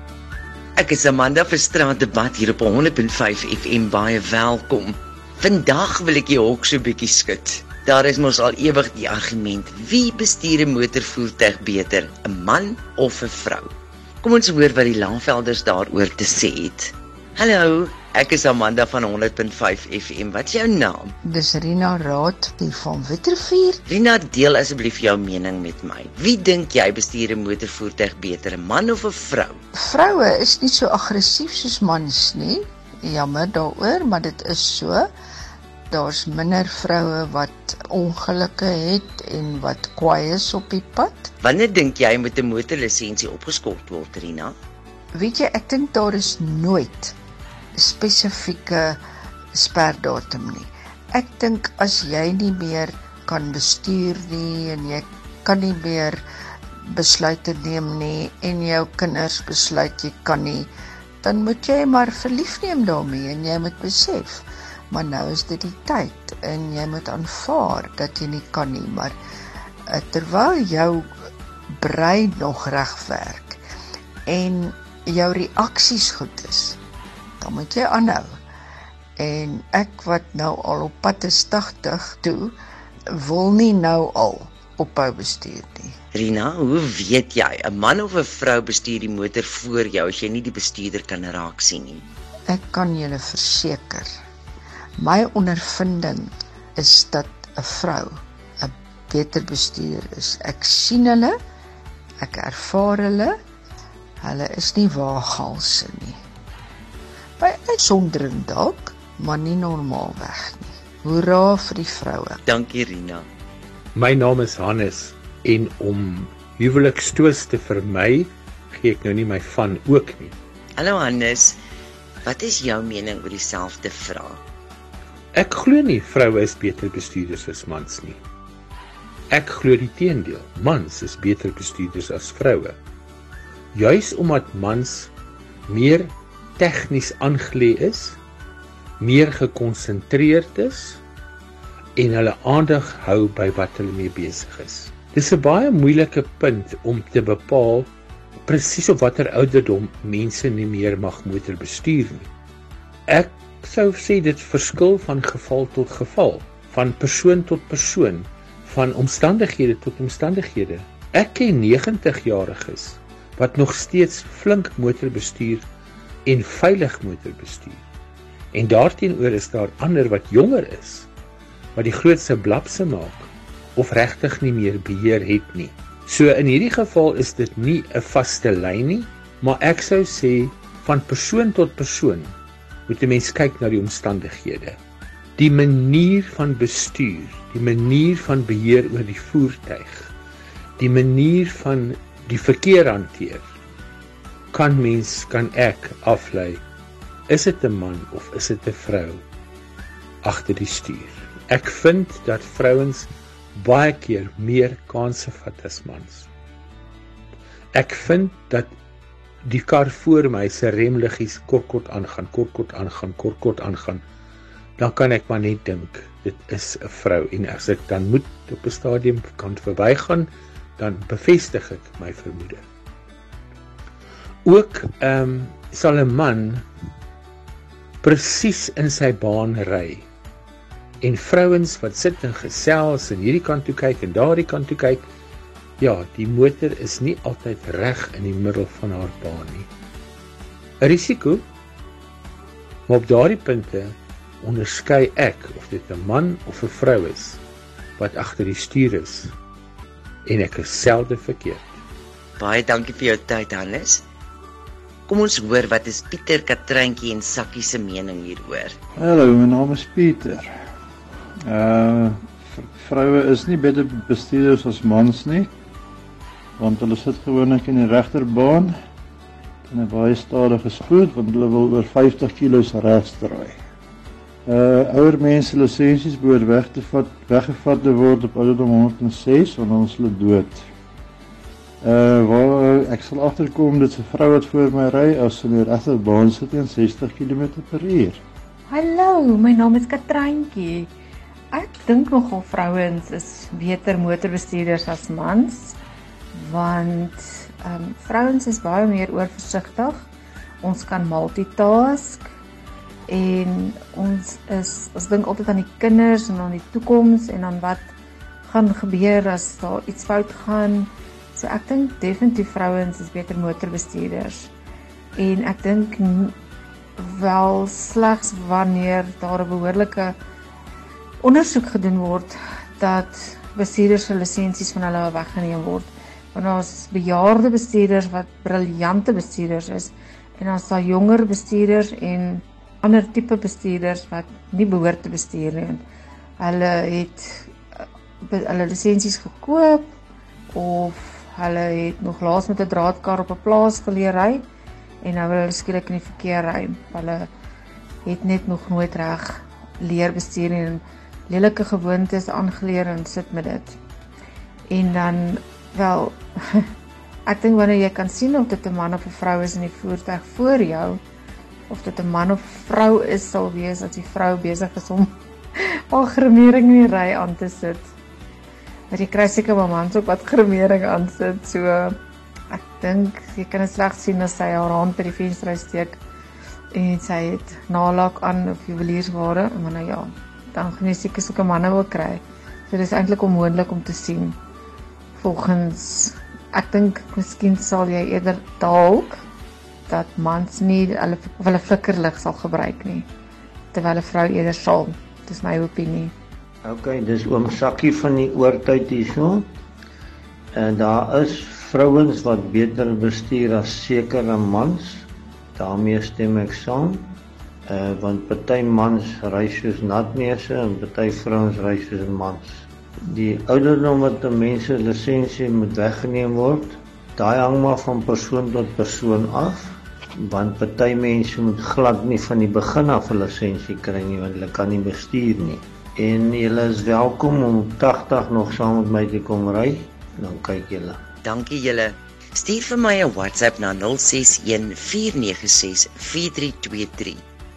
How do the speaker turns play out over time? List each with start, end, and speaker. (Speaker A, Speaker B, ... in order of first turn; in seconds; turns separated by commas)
Speaker A: 0.8-13.7, Speaker A: 14.2-21.1, Speaker B: 21.2-23.8, Speaker A: 23.9-29.6, Speaker B: 29.7-35.1, Speaker B: 35.9-41.3, Speaker A: 41.4-44.5, Speaker B: 45.1-47.2, Speaker B: 47.8-49.0, Speaker B: 49.5-56.2, Speaker B: 56.8-60.7, Speaker B: 61.2-69.2, Speaker B: 69.9-71.3, Speaker B: 71.8-73.6, Speaker B: 74.3-76.8, Speaker B: 77.4-78.4, Speaker B: 79.2-82.6, Speaker B: 83.1-86.0, Speaker A: 86.1-92.0, Speaker B: 92.5-94.1, Speaker B: 95.0-101.3, Speaker B: 102.2-103.4, Speaker B: 104.2-106.2, Speaker B: 107.4-112.4, Speaker A: 112.5-113.3, Speaker C: 114.0-120.3, Speaker A: 120.8-121.6, Speaker A: 122.2-124.4, Speaker C: 125.3-128.2, Speaker C: 129.3-132.8, Speaker C: 133.7-135.1, Speaker C: 135.7-138.2, Speaker C: 139.0-141.0, Speaker C: 142.0-147.9, Speaker C: 148.5-152.3, Speaker C: 153.1-165.7, Speaker C: 166.2-167.8, Speaker C: 168.5-171.1, Speaker C: 171.8-182.4, Speaker C: 182.9-184.8, Speaker C: 185.4-190.1, Speaker C: 190.8-193.4, Speaker C: 194.5-196.6, Speaker C: 197.3-199.2, Speaker C: 200.2-206.3, Speaker C: 207.7-208.7, Speaker C: 209.4-214.0, Speaker C: 214.8-222.7, Speaker C: 224.4-226.7, Speaker C: 228.0-230.1, Speaker C: 231.0-235.1, Speaker C: 235.8-239.7, Speaker C: 240.8-241.5, Speaker C: 242.9-247.4, Speaker C: 248.0-249.3, Speaker C: 250.2-251.7, Speaker A: 252.4-254.1, Speaker A: 255.1-258.8, Speaker D: 259.0-260.5, Speaker D: 261.5-265.5, Speaker D: 266.6-268.7, Speaker D: 269.7-273.6, Speaker D: 274.5-280.7, Speaker D: 281.8-288.2, Speaker E: 288.7-290.9, Speaker E: 291.5-295.8, Speaker E: 296.3-300.1, Speaker E: 300.6-302.3, Speaker E: 303.1-307.9, Speaker E: 308.4-314.5, Speaker E: 315.2-316.4, Speaker E: 317.0-320.1, Speaker E: 321.2-335.8, Speaker E: 336.4-337.5, Speaker E: 338.2-339.9, Speaker E: 340.5-344.4, Speaker E: 345.0-347.3, Speaker E: 348.1-353.8, Speaker E: 354.7-356.7, Speaker E: 357.3-361.0, Speaker E: 361.7-367.9, Speaker E: 368.9-372.0, Speaker E: 372.5-376.0, Speaker E: 376.7-384.4, Speaker E: 385.1-389.2, Speaker E: 389.9-393.1, Speaker E: 393.7-396.1, Speaker F: 396.6-399.5, Speaker F: 400.5-407.1, Speaker F: 407.7-431.0, Speaker A: 431.2-437.2